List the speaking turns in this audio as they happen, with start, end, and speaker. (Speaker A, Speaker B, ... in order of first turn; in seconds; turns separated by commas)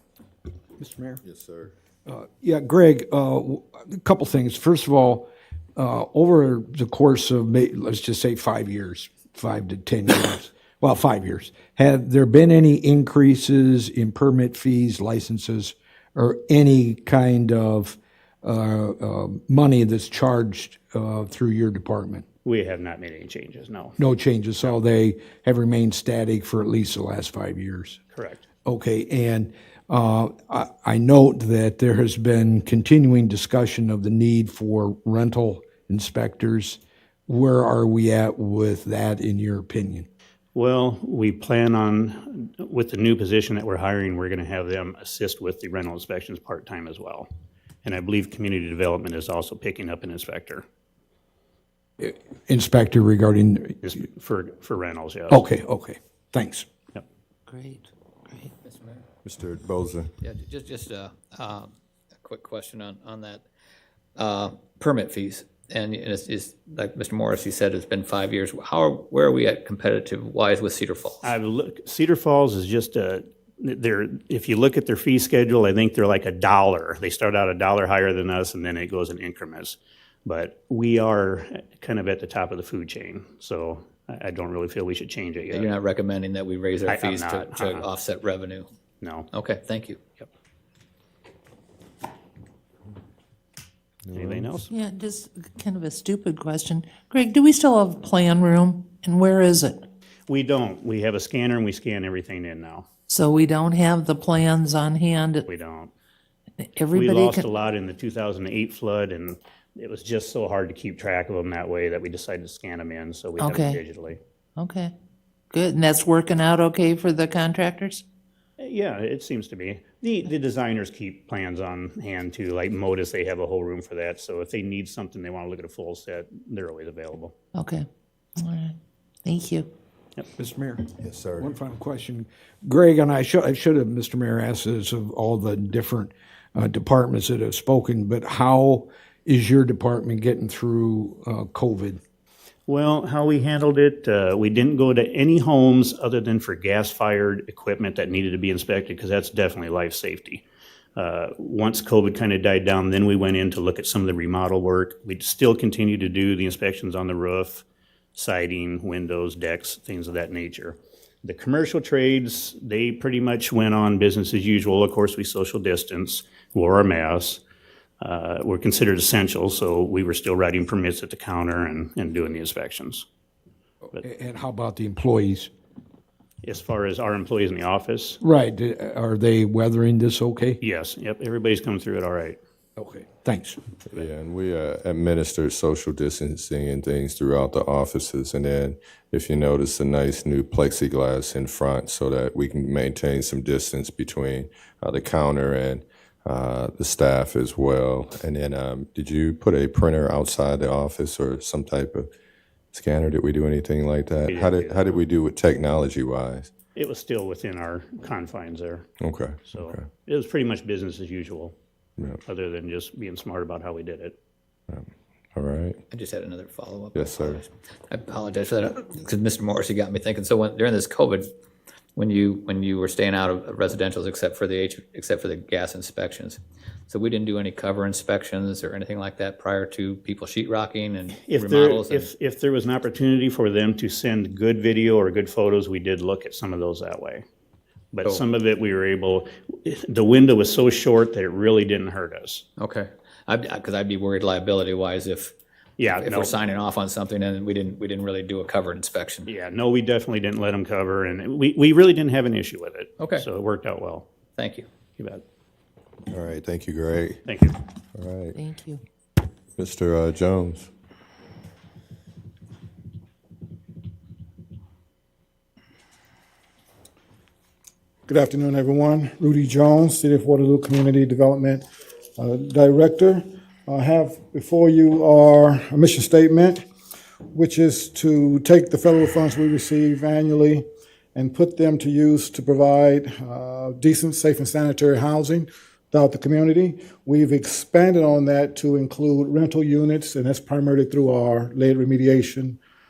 Speaker A: 0.8-1.2, Speaker B: 1.2-1.7, Speaker A: 2.0-22.2, Speaker C: 22.4-23.9, Speaker A: 24.0-28.0, Speaker C: 28.1-28.4, Speaker A: 28.6-40.1, Speaker C: 40.5-47.3, Speaker C: 47.8-50.6, Speaker A: 52.0-53.8, Speaker C: 53.8-55.4, Speaker A: 55.3-56.7, Speaker D: 57.5-58.5, Speaker E: 58.6-59.0, Speaker B: 59.2-60.1, Speaker E: 60.2-63.4, Speaker E: 64.2-71.3, Speaker C: 71.2-85.7, Speaker E: 85.5-88.7, Speaker C: 86.8-87.9, Speaker C: 89.0-89.3, Speaker E: 89.3-90.0, Speaker B: 94.0-94.5, Speaker C: 94.1-94.7, Speaker D: 94.7-99.8, Speaker C: 100.3-102.8, Speaker D: 103.1-105.5, Speaker C: 105.5-105.9, Speaker D: 106.6-107.4, Speaker C: 106.9-114.2, Speaker D: 113.4-113.8, Speaker D: 114.6-114.9, Speaker D: 115.5-118.0, Speaker C: 118.6-127.3, Speaker D: 127.5-127.8, Speaker D: 128.4-129.7, Speaker A: 130.4-142.0, Speaker B: 131.0-131.5, Speaker C: 142.7-150.4, Speaker C: 150.9-167.4, Speaker C: 168.0-173.1, Speaker A: 174.0-175.5, Speaker C: 176.4-178.2, Speaker A: 178.2-180.6, Speaker C: 180.6-182.4, Speaker A: 182.8-183.6, Speaker B: 183.9-202.1, Speaker B: 202.7-206.5, Speaker C: 204.3-205.0, Speaker C: 206.7-208.8, Speaker B: 209.0-209.8, Speaker C: 209.4-211.5, Speaker C: 212.2-214.2, Speaker B: 214.7-215.8, Speaker E: 215.9-221.3, Speaker B: 216.9-217.4, Speaker E: 221.9-232.1, Speaker C: 231.2-237.2, Speaker C: 237.9-242.4, Speaker E: 242.6-245.3, Speaker C: 245.8-246.3, Speaker E: 245.9-249.3, Speaker C: 249.2-254.1, Speaker E: 253.0-253.2, Speaker E: 254.4-254.7, Speaker C: 255.0-255.2, Speaker B: 256.1-257.2, Speaker C: 257.2-257.6, Speaker B: 257.9-258.4, Speaker D: 258.3-258.8, Speaker B: 259.6-260.7, Speaker F: 268.1-271.6, Speaker F: 272.2-276.6, Speaker F: 277.3-292.6